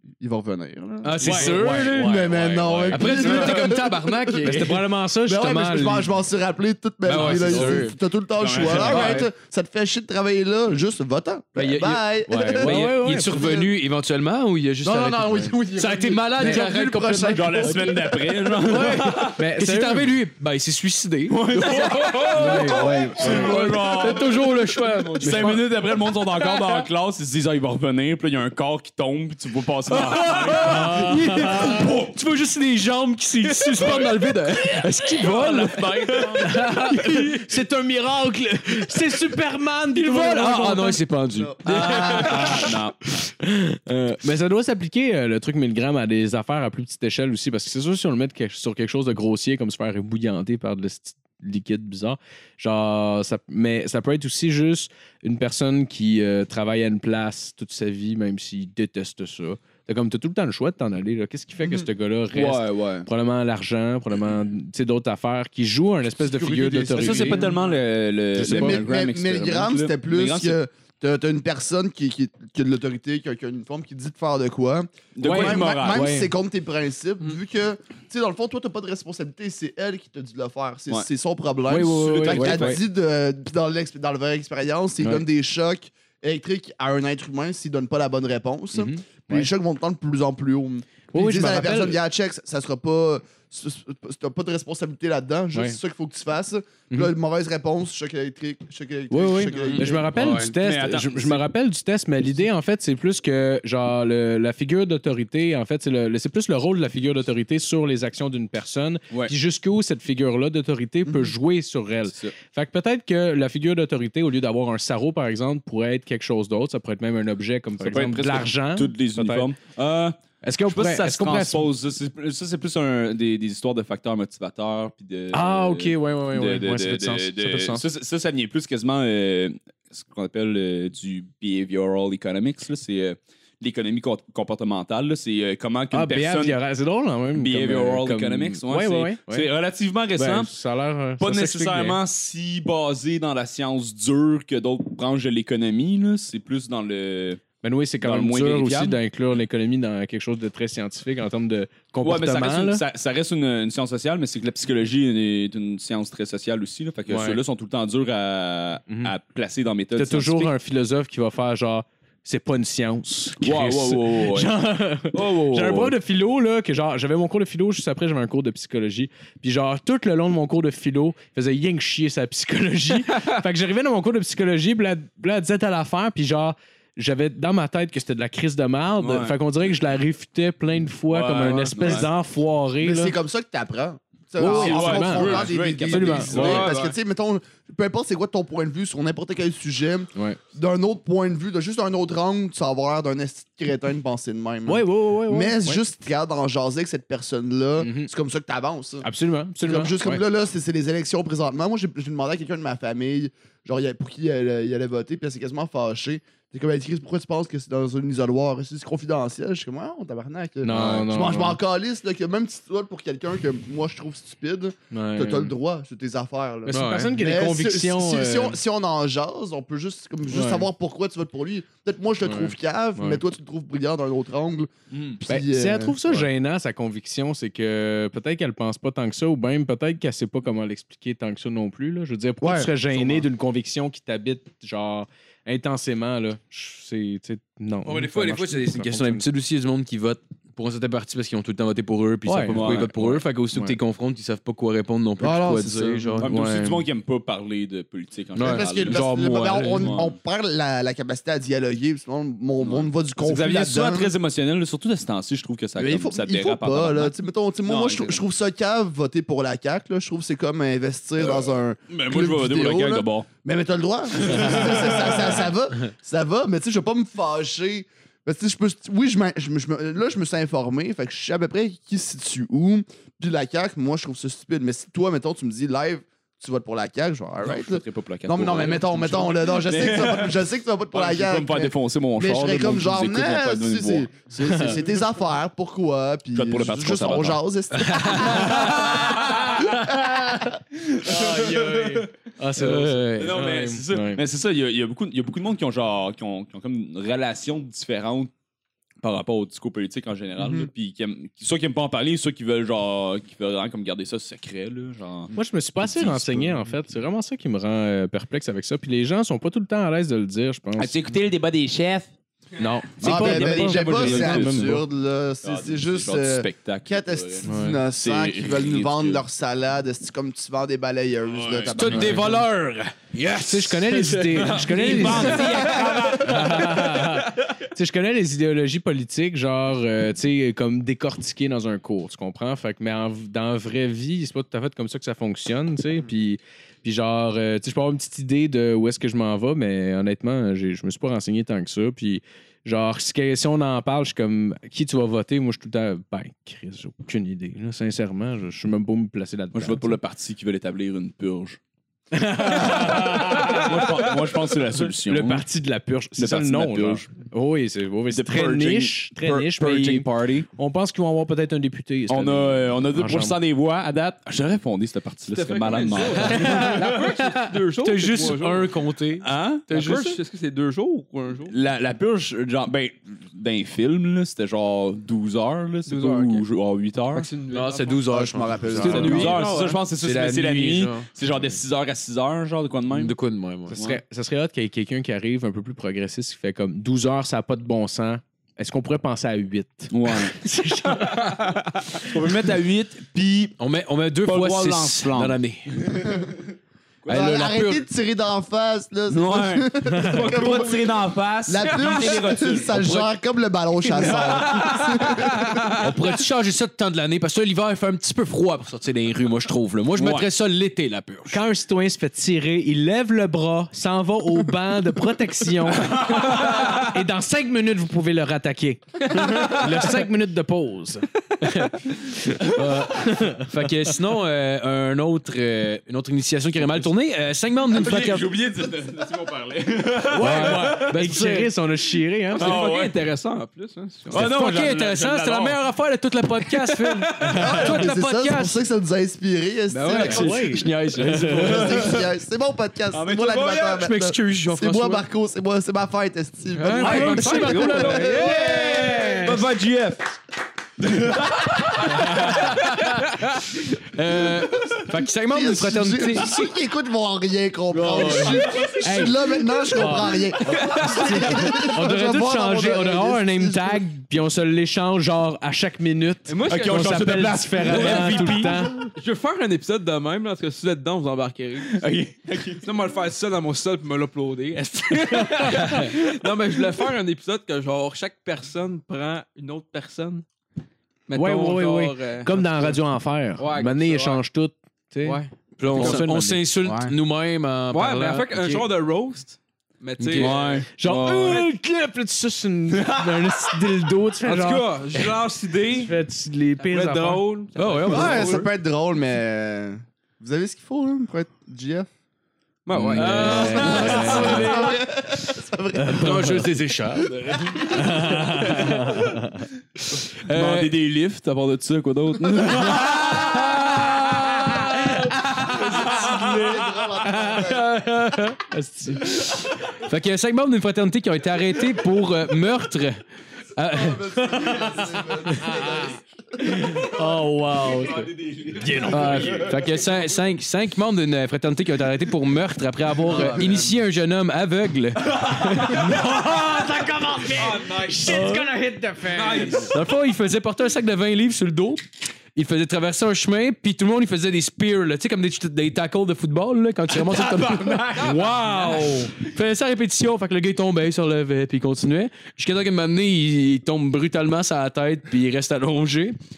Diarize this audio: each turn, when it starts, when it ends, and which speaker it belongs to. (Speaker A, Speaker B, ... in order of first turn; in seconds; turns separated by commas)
Speaker A: 0.2-4.7, Speaker B: 1.0-2.3, Speaker C: 1.1-3.7, Speaker D: 2.5-3.5, Speaker B: 2.9-4.9, Speaker C: 4.4-6.1, Speaker A: 5.2-13.7, Speaker C: 7.0-7.9, Speaker B: 7.0-7.9, Speaker D: 8.4-9.2, Speaker B: 8.6-9.3, Speaker C: 8.7-9.2, Speaker B: 11.6-12.0, Speaker C: 11.8-13.4, Speaker B: 12.6-17.9, Speaker A: 14.8-18.3, Speaker D: 17.3-19.4, Speaker B: 18.6-25.7, Speaker C: 18.6-20.1, Speaker D: 21.3-24.4, Speaker E: 22.1-22.6, Speaker C: 22.3-24.0, Speaker A: 22.9-23.7, Speaker D: 25.1-31.1, Speaker B: 29.9-37.5, Speaker C: 30.5-31.9, Speaker C: 34.3-41.0, Speaker B: 38.9-39.2, Speaker B: 39.9-42.6, Speaker A: 41.4-42.5, Speaker D: 41.6-43.0, Speaker C: 41.7-67.5, Speaker A: 61.6-61.9, Speaker D: 62.3-63.1, Speaker D: 66.4-70.6, Speaker A: 66.8-67.5, Speaker C: 68.3-68.8, Speaker A: 68.4-100.1, Speaker D: 75.2-76.2, Speaker C: 75.2-76.3, Speaker C: 81.7-82.8, Speaker D: 82.1-82.8, Speaker C: 85.0-85.2, Speaker C: 88.7-89.5, Speaker C: 91.1-92.0, Speaker C: 99.1-119.5, Speaker D: 99.8-101.4, Speaker D: 117.8-136.6, Speaker C: 120.4-121.7, Speaker C: 125.3-127.8, Speaker C: 135.9-139.5, Speaker D: 137.3-140.5, Speaker C: 140.1-142.0, Speaker D: 141.2-147.4, Speaker C: 147.6-152.8, Speaker D: 148.0-149.0, Speaker D: 152.0-160.5, Speaker C: 157.1-157.4, Speaker C: 159.9-183.2, Speaker D: 163.4-164.5, Speaker D: 165.1-165.9, Speaker D: 179.0-179.4, Speaker D: 181.1-182.1, Speaker A: 182.8-199.1, Speaker C: 184.4-186.8, Speaker D: 184.4-186.9, Speaker C: 194.7-195.8, Speaker C: 197.8-198.1, Speaker C: 199.0-200.2, Speaker A: 199.6-226.2, Speaker C: 210.6-211.6, Speaker C: 214.9-215.5, Speaker C: 216.7-218.6, Speaker B: 216.7-217.2, Speaker C: 220.3-220.7, Speaker C: 222.2-223.2, Speaker D: 224.9-225.2, Speaker C: 225.3-239.2, Speaker A: 232.4-233.3, Speaker B: 237.8-246.3, Speaker C: 242.2-242.9, Speaker D: 242.5-243.2, Speaker A: 245.2-246.2, Speaker C: 246.0-246.8, Speaker D: 246.2-249.0, Speaker B: 248.3-250.0, Speaker A: 248.4-254.1, Speaker D: 249.6-250.1, Speaker D: 252.6-258.2, Speaker A: 255.8-290.6, Speaker D: 261.2-263.3, Speaker D: 264.2-265.5, Speaker D: 277.4-280.4, Speaker D: 280.9-284.1, Speaker D: 286.3-287.4, Speaker C: 288.1-288.7, Speaker D: 288.3-289.9, Speaker D: 290.8-298.3, Speaker C: 291.0-294.2, Speaker D: 299.0-306.7, Speaker A: 300.4-300.6, Speaker C: 305.3-311.0, Speaker D: 310.8-312.1, Speaker C: 312.6-314.8, Speaker D: 313.0-314.8, Speaker A: 313.0-322.3, Speaker D: 315.4-319.2, Speaker C: 317.4-317.8, Speaker D: 321.3-322.2, Speaker B: 321.7-322.5, Speaker C: 321.8-325.5, Speaker B: 323.1-325.4, Speaker D: 324.4-326.8, Speaker E: 324.9-326.2, Speaker C: 326.1-350.0, Speaker D: 349.5-351.6, Speaker C: 352.1-354.1, Speaker D: 352.4-355.4, Speaker C: 355.0-363.4, Speaker D: 356.2-357.1, Speaker D: 358.1-360.5, Speaker D: 362.1-367.1, Speaker E: 365.3-368.8, Speaker B: 366.3-367.1, Speaker B: 367.7-369.3, Speaker D: 369.2-370.2, Speaker E: 369.7-371.5, Speaker D: 371.5-377.3, Speaker E: 375.9-376.5, Speaker E: 377.1-378.2, Speaker B: 377.5-381.1, Speaker A: 378.1-379.4, Speaker E: 378.8-379.8, Speaker D: 378.8-383.1, Speaker B: 382.9-383.8, Speaker C: 383.7-391.5, Speaker D: 383.7-384.0, Speaker D: 389.9-390.3, Speaker D: 392.0-393.6, Speaker B: 393.6-395.9, Speaker D: 394.2-396.0, Speaker A: 397.1-405.7, Speaker B: 397.1-397.8, Speaker D: 399.1-403.1, Speaker C: 399.9-400.3, Speaker E: 401.7-402.2, Speaker D: 403.8-405.8, Speaker E: 404.5-405.7, Speaker B: 405.8-411.4, Speaker D: 409.9-410.3, Speaker C: 411.3-423.9, Speaker D: 415.9-416.7, Speaker B: 422.6-428.3, Speaker D: 427.7-430.9, Speaker B: 430.1-431.5, Speaker C: 430.1-432.6, Speaker E: 432.3-434.2, Speaker D: 432.4-433.0, Speaker D: 434.1-435.6, Speaker B: 434.1-438.6, Speaker E: 436.5-437.4, Speaker C: 437.2-437.8, Speaker A: 437.3-440.7, Speaker E: 439.7-440.7, Speaker B: 439.9-441.9, Speaker C: 439.9-441.7, Speaker A: 441.2-448.9, Speaker D: 441.5-442.0, Speaker D: 442.9-443.9, Speaker B: 443.7-445.0, Speaker E: 446.6-449.2, Speaker B: 446.6-447.6, Speaker C: 446.6-449.5, Speaker D: 449.1-450.1, Speaker D: 450.8-452.6, Speaker C: 451.9-452.8, Speaker B: 453.8-456.4, Speaker A: 455.3-463.8, Speaker C: 457.7-468.9, Speaker D: 458.2-458.8, Speaker E: 458.5-458.7, Speaker E: 460.5-461.1, Speaker E: 466.3-467.0, Speaker D: 466.4-468.6, Speaker E: 467.6-480.2, Speaker D: 471.7-472.7, Speaker C: 475.3-475.9, Speaker E: 481.1-482.8, Speaker C: 481.1-486.4, Speaker E: 483.4-484.2, Speaker E: 485.0-486.1, Speaker B: 485.6-488.6, Speaker E: 487.7-490.7, Speaker B: 490.0-490.6, Speaker D: 490.1-491.5, Speaker C: 490.7-498.1, Speaker E: 492.9-493.2, Speaker E: 494.2-496.0, Speaker E: 496.6-498.5, Speaker B: 497.6-498.5, Speaker A: 497.9-501.9, Speaker E: 502.6-504.6, Speaker C: 502.7-504.8, Speaker B: 502.9-504.8, Speaker A: 503.2-507.7, Speaker D: 503.6-504.2, Speaker C: 505.8-506.3, Speaker B: 505.8-508.9, Speaker C: 507.6-509.4, Speaker B: 510.2-510.7, Speaker D: 510.3-516.2, Speaker B: 512.5-513.9, Speaker A: 515.3-517.8, Speaker C: 517.2-519.5, Speaker B: 519.0-523.0, Speaker B: 523.5-524.6, Speaker A: 523.7-526.0, Speaker C: 524.2-529.6, Speaker D: 527.5-529.8, Speaker B: 528.9-535.8, Speaker C: 533.1-533.4, Speaker C: 535.3-539.8, Speaker E: 537.3-538.4, Speaker E: 539.0-539.8, Speaker B: 539.7-541.8, Speaker B: 542.3-556.2, Speaker E: 547.6-549.2